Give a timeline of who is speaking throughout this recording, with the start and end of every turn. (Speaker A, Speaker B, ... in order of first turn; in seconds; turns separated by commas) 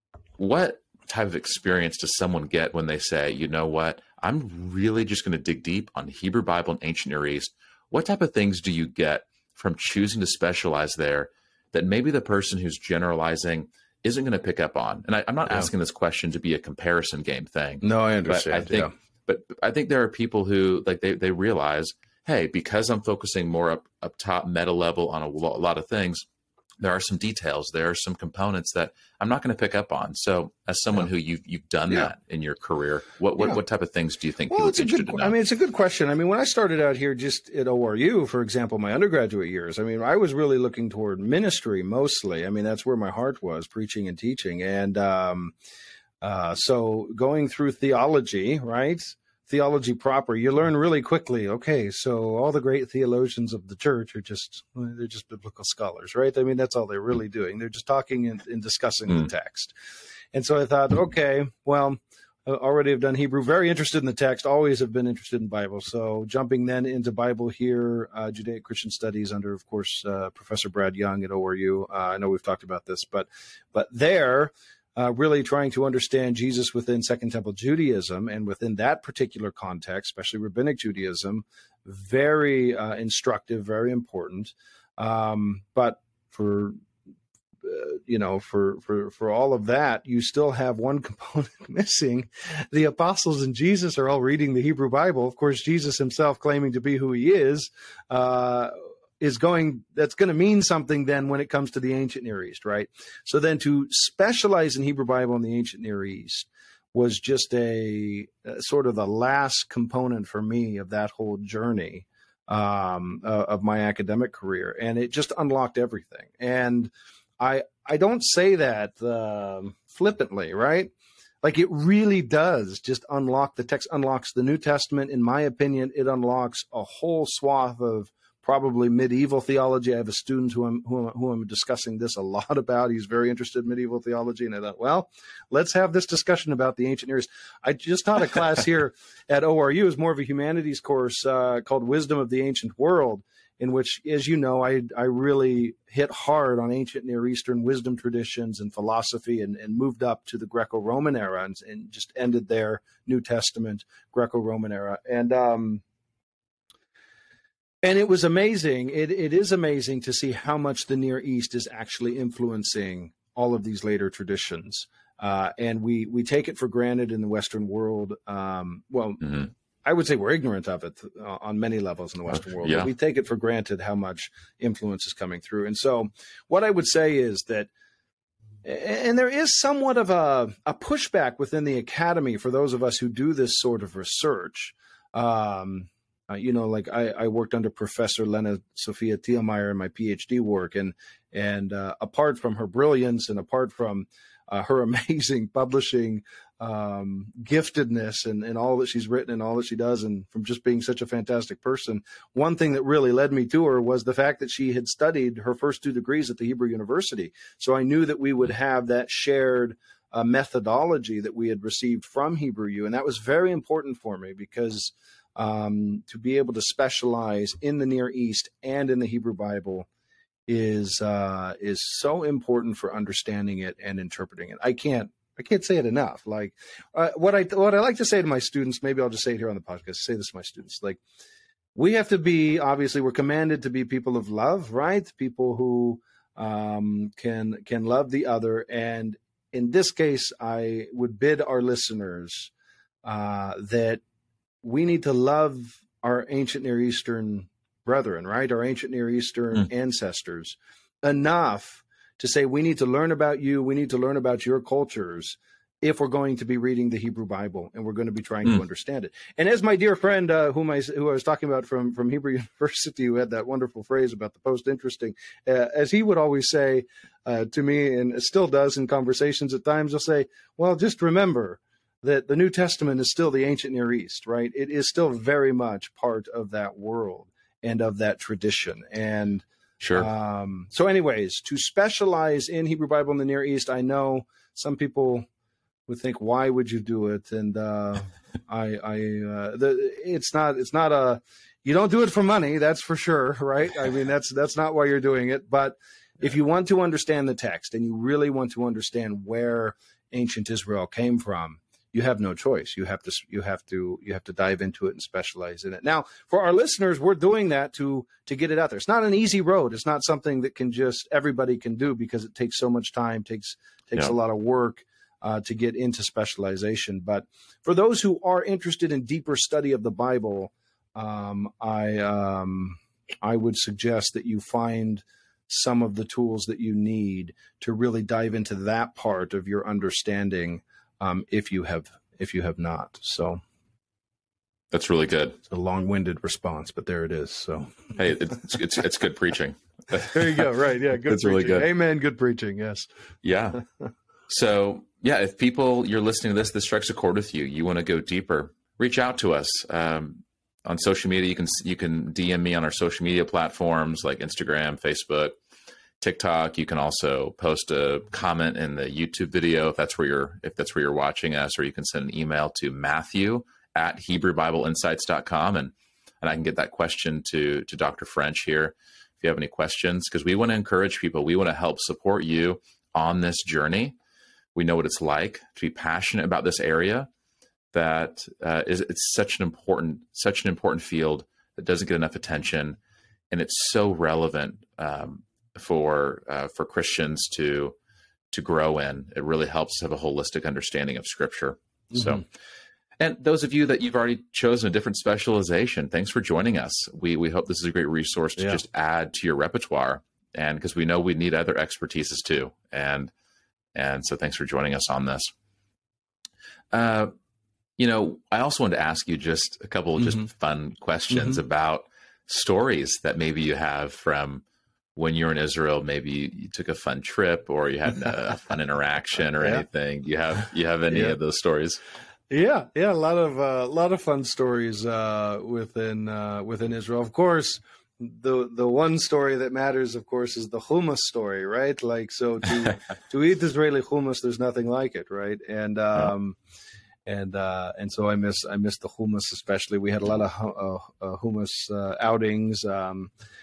Speaker A: 0.4-26.3, Speaker B: 17.8-18.9, Speaker A: 26.8-35.3, Speaker B: 34.5-45.5, Speaker B: 46.2-59.7, Speaker B: 60.3-86.8, Speaker B: 87.6-155.8, Speaker B: 157.8-177.7, Speaker A: 169.2-169.5, Speaker A: 172.4-172.9, Speaker B: 178.6-219.9, Speaker B: 220.5-231.0, Speaker B: 231.8-242.5, Speaker B: 243.0-244.0, Speaker B: 244.6-285.3, Speaker A: 279.8-280.1, Speaker B: 285.9-333.4, Speaker A: 334.7-335.4, Speaker B: 335.5-337.9, Speaker A: 337.9-340.4, Speaker B: 340.0-342.9, Speaker A: 341.1-341.7, Speaker A: 343.2-343.6, Speaker A: 344.3-355.4, Speaker A: 356.0-373.9, Speaker A: 374.6-377.1, Speaker A: 377.7-382.8, Speaker A: 383.3-387.8, Speaker A: 388.3-392.2, Speaker B: 391.9-392.2, Speaker A: 393.0-403.1, Speaker A: 403.7-405.3, Speaker A: 406.7-407.1, Speaker A: 407.8-414.4, Speaker B: 411.1-411.4, Speaker A: 414.9-421.8, Speaker B: 420.9-421.2, Speaker B: 422.3-436.4, Speaker B: 437.1-443.1